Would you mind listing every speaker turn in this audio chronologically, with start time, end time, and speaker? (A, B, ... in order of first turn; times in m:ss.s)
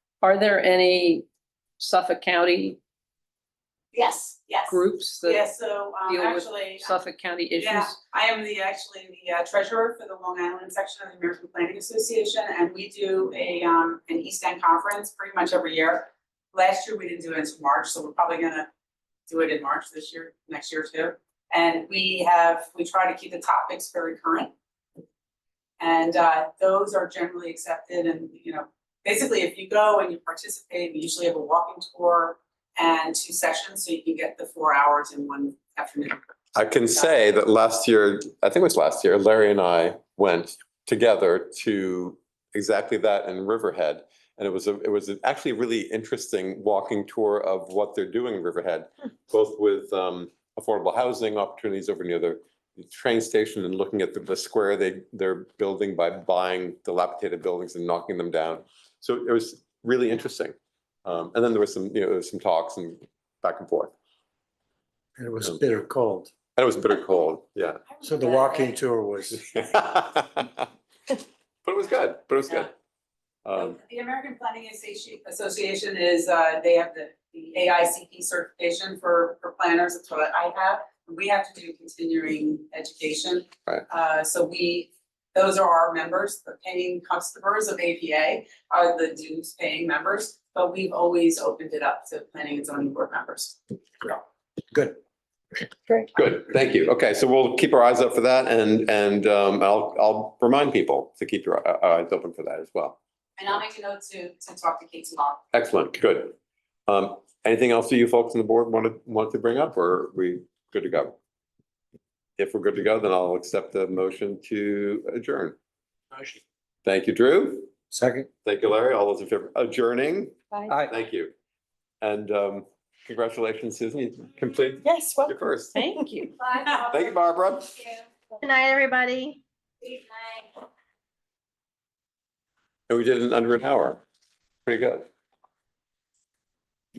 0:00.2-0:01.2 A
0:01.8-0:02.8 A
0:03.9-0:06.9 B
0:04.7-0:05.4 A
0:06.1-0:08.0 A
0:07.6-0:18.7 B
0:19.3-0:24.5 B
0:25.8-0:36.4 B
0:36.6-1:03.9 C
1:05.2-1:06.3 D
1:06.6-1:07.8 C
1:08.0-1:08.8 B
1:08.0-1:09.4 D
1:09.6-1:10.7 C
1:11.6-1:12.7 C
1:13.4-1:13.8 C
1:13.6-1:33.6 B
1:34.7-1:35.0 D
1:36.1-1:43.0 C
1:43.4-1:45.4 B
1:45.5-1:46.3 C
1:46.9-1:51.2 C
1:52.4-1:55.6 C
1:56.8-1:57.7 C
1:57.9-1:58.3 D
1:58.4-2:01.3 C
2:02.0-2:05.8 C
2:04.9-2:05.3 E
2:05.8-2:06.3 A
2:05.8-2:06.3 E
2:06.8-2:07.9 C
2:08.4-2:09.4 E
2:12.9-2:14.0 C
2:14.7-2:15.1 C